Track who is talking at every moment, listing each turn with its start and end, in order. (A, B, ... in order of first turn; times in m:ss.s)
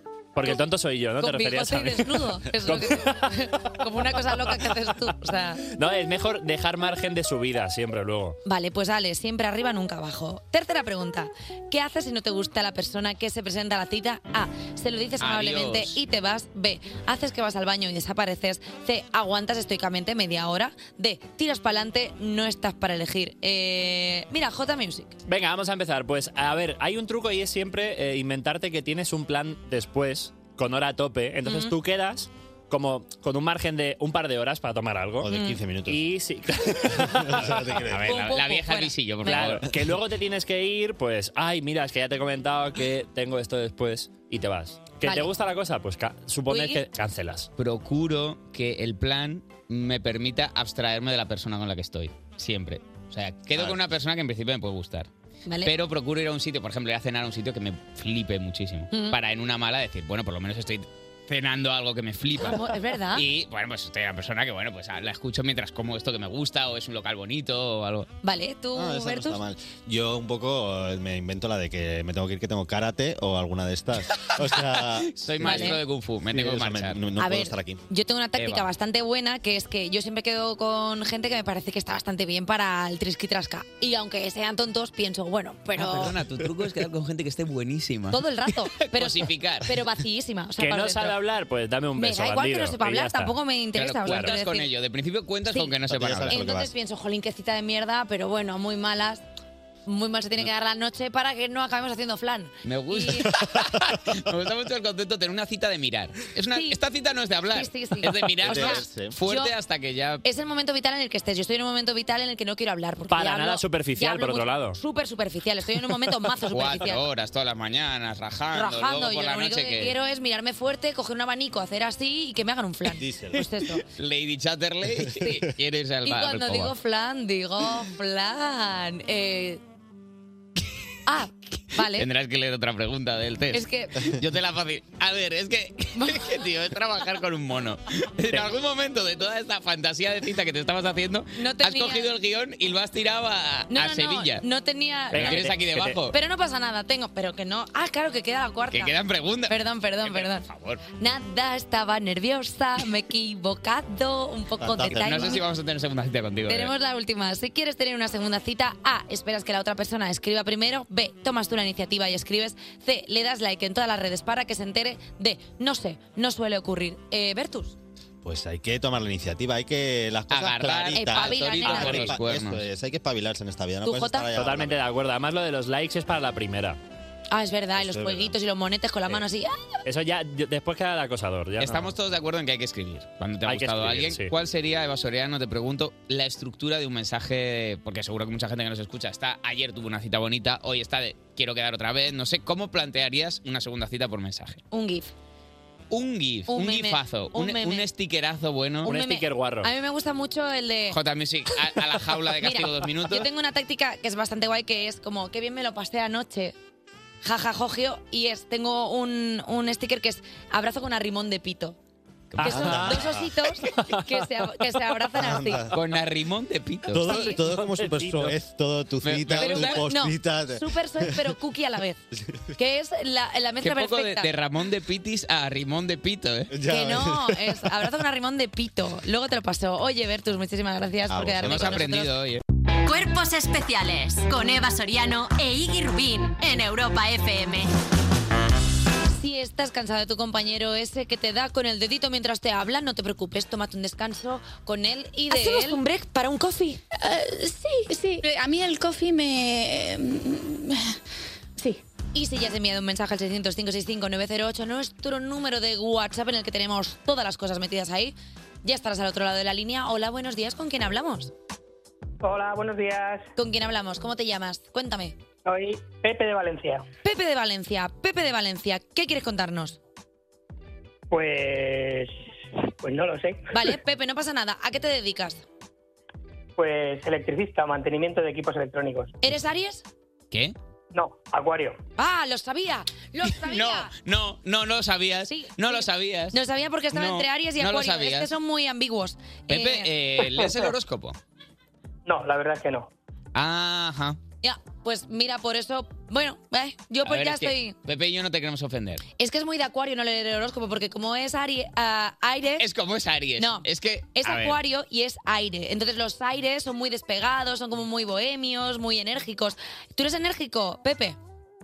0:00.4-0:03.4 A
0:01.2-0:05.6 B
0:04.0-0:04.5 A
0:05.7-0:08.4 A
0:08.4-0:25.2 B
0:15.2-0:16.0 C
0:25.3-0:35.3 A
0:31.4-0:31.8 B
0:35.2-0:36.0 D
0:35.3-0:35.6 B
0:35.9-0:37.7 A
0:36.8-0:38.2 D
0:37.8-0:39.6 C
0:38.0-0:39.6 B
0:39.2-0:47.5 A
0:45.0-0:45.3 B
0:46.5-0:46.8 B
0:47.6-0:55.1 C
0:53.5-0:53.8 D
0:55.5-0:55.7 B
0:55.6-1:02.6 C
0:58.9-0:59.2 B
1:02.4-1:03.3 B
1:03.1-1:08.1 C
1:08.2-1:09.4 B
1:08.7-1:15.8 D
1:15.1-1:17.0 C
1:15.4-1:15.8 B
1:16.3-1:17.8 D
1:17.2-1:26.2 B
1:18.4-1:18.6 C
1:25.8-1:28.2 C
1:28.1-1:31.2 B
1:28.8-1:29.7 C
1:30.6-1:33.4 A
1:32.0-1:34.7 B
1:33.8-1:36.4 C
1:35.5-1:39.2 B
1:35.9-1:36.7 D
1:39.9-1:43.4 B
1:42.6-1:50.2 C
1:46.5-1:46.8 B
1:47.5-1:49.5 B
1:48.4-1:49.2 D
1:50.2-1:57.0 B
1:53.1-1:54.8 A
1:56.5-1:59.9 C
1:58.5-2:03.8 B
2:02.9-2:03.5 D
2:03.9-2:06.7 C
2:06.0-2:09.6 B
2:11.1-2:12.1 B
2:12.0-2:24.4 C
2:13.5-2:14.1 B
2:16.0-2:16.3 B
2:21.4-2:22.1 B
2:23.7-2:25.5 B
2:25.1-2:26.0 A
2:25.2-2:26.1 C
2:26.1-2:28.9 B
2:28.7-2:30.8 C
2:29.5-2:30.4 B
2:31.0-2:35.4 B
2:34.6-2:35.4 D
2:34.9-2:36.7 C
2:36.5-2:47.8 B
2:48.2-2:54.8 D
2:50.3-2:52.6 C
2:51.0-2:52.2 B
2:53.8-2:54.3 B
2:54.3-2:56.8 A
2:57.3-2:59.8 B
2:57.8-2:58.4 D
2:59.8-3:01.9 A
3:01.6-3:14.6 C
3:03.4-3:04.3 A
3:14.7-3:15.1 B
3:15.9-3:18.9 C
3:16.5-3:17.9 B
3:18.9-3:19.7 A
3:18.9-3:21.0 B
3:20.9-3:23.2 C
3:22.3-3:26.5 B
3:27.2-3:31.8 B
3:32.3-3:33.1 C
3:32.4-3:35.7 B
3:32.4-3:33.4 D
3:35.2-3:35.7 D
3:35.7-3:37.1 C
3:36.9-3:41.3 D
3:37.1-3:37.4 B
3:37.2-3:38.4 A
3:39.0-3:39.8 C
3:39.4-3:42.0 B
3:42.6-3:44.3 B
3:43.6-3:46.5 C
3:46.5-3:47.7 D
3:46.7-3:52.1 B
3:51.1-3:51.9 D
3:51.4-3:52.4 C
3:52.9-3:57.7 E
3:59.1-4:06.8 B
4:05.3-4:05.8 F
4:07.0-4:10.9 F
4:12.1-4:21.3 B
4:22.2-4:23.3 G
4:23.4-4:25.2 B
4:25.4-4:26.9 G
4:27.0-4:29.8 B
4:31.1-4:32.1 G
4:32.8-4:33.6 G
4:33.5-4:35.4 B
4:36.6-4:39.2 G
4:39.2-4:39.8 B
4:40.9-4:41.8 G
4:42.0-4:43.9 B
4:43.3-4:46.4 C
4:45.3-4:49.9 B
4:46.9-4:48.3 C
4:49.5-4:51.2 C
4:52.1-4:52.9 G
4:53.4-4:54.2 C
4:54.4-4:57.8 B
4:57.0-4:59.0 C
4:59.2-5:02.7 B
5:02.6-5:04.6 C
5:03.4-5:03.6 B
5:04.2-5:11.2 B